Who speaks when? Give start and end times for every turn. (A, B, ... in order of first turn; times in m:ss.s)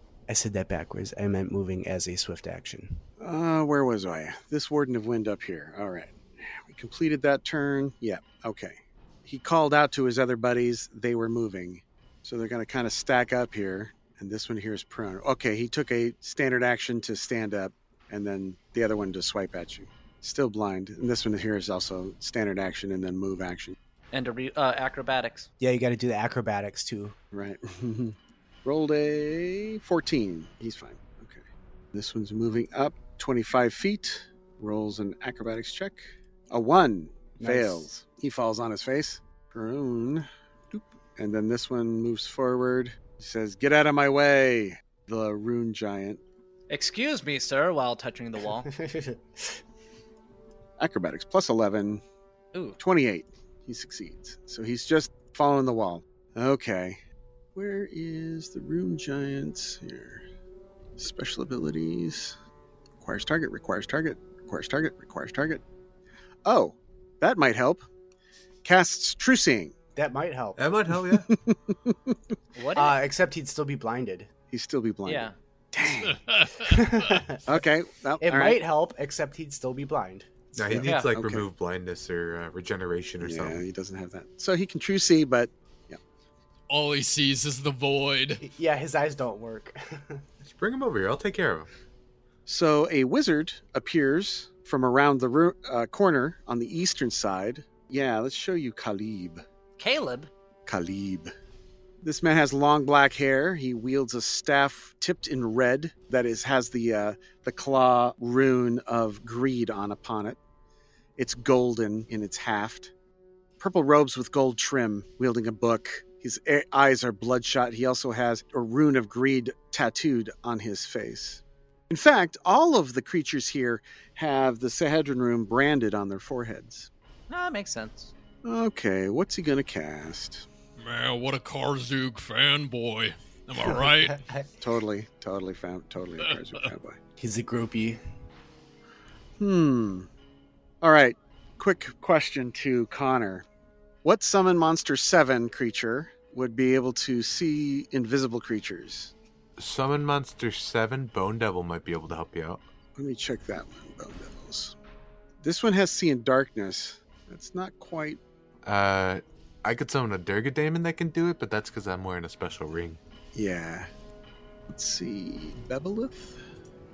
0:00.3-0:03.0 A
0:03.2-0:23.8 B
0:24.1-0:25.5 C
0:25.6-0:27.1 A
0:27.3-0:46.2 B
0:37.4-0:37.9 A
0:46.7-0:48.7 C
0:48.6-0:49.4 A
0:50.8-0:52.0 B
0:52.5-0:52.8 C
0:52.8-0:57.0 B
0:57.5-1:00.2 B
1:01.0-1:02.4 B
1:03.0-1:05.6 B
1:06.4-1:07.8 B
1:08.6-1:09.7 B
1:10.0-1:10.6 A
1:10.6-1:11.3 D
1:11.0-1:12.1 B
1:12.5-1:13.0 C
1:12.7-1:14.3 A
1:14.5-1:16.2 B
1:15.0-1:15.3 C
1:16.0-1:17.2 E
1:16.6-1:17.6 A
1:17.4-1:18.6 B
1:18.2-1:20.3 A
1:20.5-1:23.6 D
1:20.6-1:21.5 B
1:20.8-1:21.1 C
1:23.2-1:26.0 B
1:26.7-1:28.4 E
1:28.4-1:30.2 A
1:30.4-1:31.7 D
1:32.4-1:39.4 B
1:39.8-1:40.3 C
1:40.6-1:41.3 B
1:42.0-1:50.4 B
1:51.2-1:52.9 B
1:53.6-2:06.9 B
2:07.3-2:08.1 C
2:08.4-2:10.4 B
2:10.8-2:14.2 E
2:13.6-2:14.5 A
2:14.6-2:17.0 B
2:17.2-2:18.0 A
2:19.4-2:20.1 B
2:20.8-2:23.4 B
2:24.0-2:29.1 B
2:29.6-2:32.6 D
2:33.0-2:34.7 B
2:35.4-2:38.2 B
2:38.6-2:43.0 D
2:43.3-2:43.9 B
2:44.7-2:46.4 B